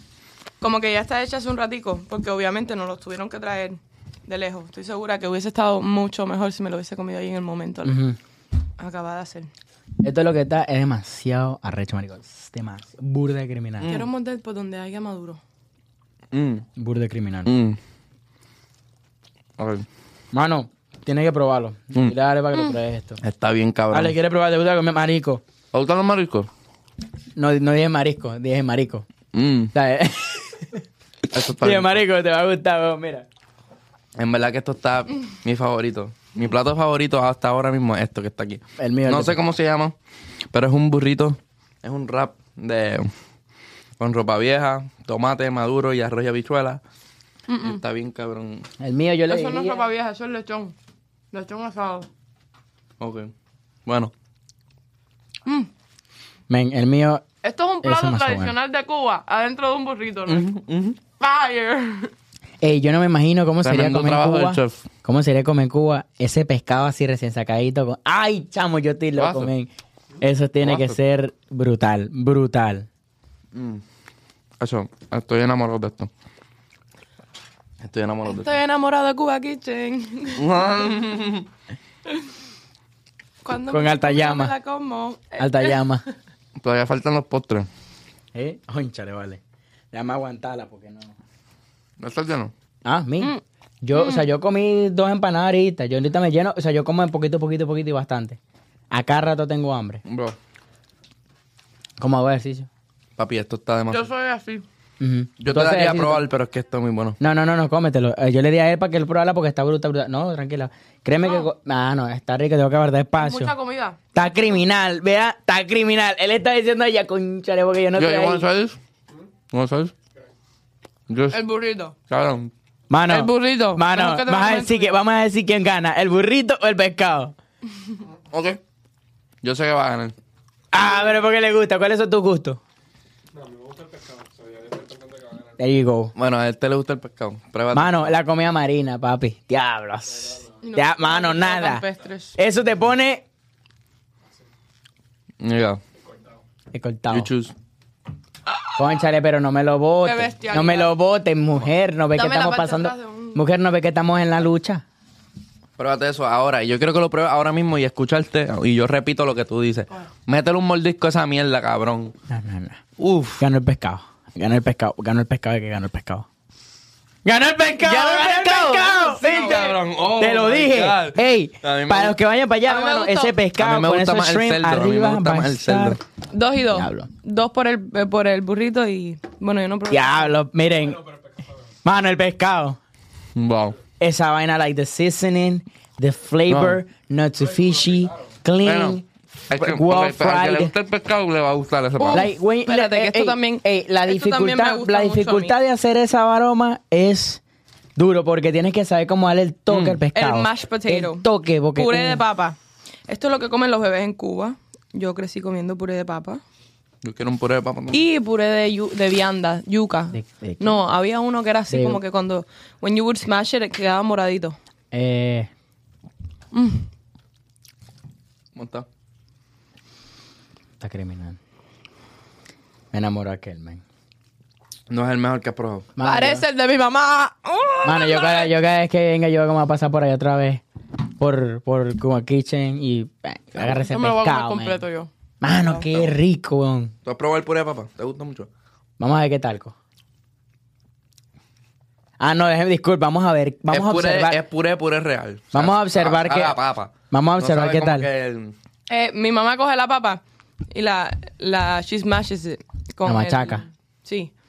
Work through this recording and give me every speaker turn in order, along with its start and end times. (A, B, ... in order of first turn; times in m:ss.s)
0:00.6-0:08.0 A
0:07.8-0:08.2 B
0:08.8-0:09.5 A
0:10.0-0:13.9 B
0:13.8-0:14.1 C
0:13.8-0:15.4 A
0:16.3-0:16.7 C
0:16.8-0:17.5 B
0:17.5-0:17.8 C
0:19.6-0:19.9 C
0:20.3-0:23.2 B
0:23.2-0:24.2 C
0:23.9-0:25.4 B
0:25.7-0:26.5 C
0:27.4-0:29.1 B
0:29.3-0:29.7 C
0:29.7-0:30.8 B
0:31.3-0:32.0 C
0:31.6-0:33.3 B
0:34.2-0:39.9 C
0:38.8-0:39.4 B
0:40.5-0:43.1 C
0:44.0-0:46.8 C
0:47.5-0:47.8 A
0:47.6-0:48.7 C
0:48.8-0:49.8 B
0:49.3-0:50.8 A
0:51.3-0:52.1 A
0:53.0-0:53.3 C
0:53.9-0:54.1 C
0:56.5-0:57.3 B
0:57.4-1:00.5 A
0:57.8-0:58.5 B
1:00.3-1:01.0 C
1:01.2-1:02.1 A
1:02.6-1:09.7 B
1:03.6-1:04.9 C
1:09.2-1:09.5 C
1:10.2-1:12.9 B
1:10.6-1:11.0 C
1:13.5-1:13.8 C
1:14.6-1:16.1 C
1:17.8-1:18.5 C
1:18.2-1:20.6 A
1:20.4-1:21.5 C
1:23.4-1:25.8 A
1:23.7-1:24.5 B
1:25.4-1:26.0 B
1:26.6-1:27.7 C
1:28.3-1:29.4 B
1:29.9-1:31.2 B
1:32.0-1:32.5 C
1:32.8-1:38.4 B
1:34.0-1:34.2 A
1:38.9-1:40.0 B
1:40.1-1:40.4 C
1:42.0-1:42.7 B
1:43.2-1:44.1 C
1:43.9-1:44.6 A
1:45.0-1:46.2 B
1:45.4-1:47.2 C
1:47.2-1:53.5 B
1:53.2-1:54.0 A
1:54.1-1:58.4 B
1:58.0-1:58.8 C
1:59.5-1:59.9 C
2:01.1-2:01.4 C
2:01.3-2:02.0 A
2:02.1-2:02.5 C
2:02.9-2:07.4 B
2:03.1-2:04.9 A
2:08.3-2:08.6 C
2:09.4-2:10.1 C
2:10.7-2:12.6 B
2:15.6-2:16.1 B
2:16.2-2:18.1 C
2:17.7-2:23.2 B
2:20.6-2:22.4 A
2:25.4-2:25.8 C
2:26.7-2:27.3 B
2:27.1-2:27.5 C
2:28.8-2:34.8 B
2:30.0-2:30.9 A
2:32.2-2:33.4 A
2:35.8-2:42.1 C
2:42.3-2:42.8 B
2:43.0-2:43.4 C
2:43.4-2:46.3 B
2:47.2-2:56.0 B
2:47.8-2:52.2 C
2:48.9-2:49.7 A
2:52.6-2:53.4 A
2:53.6-2:56.0 C
2:56.3-3:00.3 A
2:56.7-2:57.1 B
2:59.9-3:01.0 B
3:01.8-3:02.8 B
3:03.4-3:03.8 C
3:04.0-3:10.7 B
3:06.5-3:06.8 C
3:08.6-3:12.3 C
3:12.0-3:15.5 A
3:12.1-3:17.4 B
3:18.0-3:22.2 B
3:19.7-3:20.0 C
3:20.1-3:22.6 A
3:23.1-3:26.4 A
3:27.0-3:28.0 C
3:27.9-3:34.6 A
3:30.1-3:30.8 B
3:31.7-3:32.0 B
3:34.9-3:35.5 B
3:36.5-3:36.9 A
3:38.6-3:38.9 C
3:40.8-3:41.4 B
3:42.9-3:43.8 B
3:44.9-3:45.9 C
3:46.0-3:46.4 B
3:46.0-3:48.5 A
3:47.8-3:50.6 B
3:51.2-3:54.8 B
3:53.9-3:55.1 A
3:55.4-3:56.9 B
3:55.9-3:56.2 C
3:57.0-3:58.5 C
3:59.0-3:59.8 B
4:02.2-4:04.4 B
4:03.7-4:08.5 C
4:05.5-4:06.6 B
4:07.1-4:08.1 B
4:08.9-4:14.3 A
4:13.0-4:13.6 B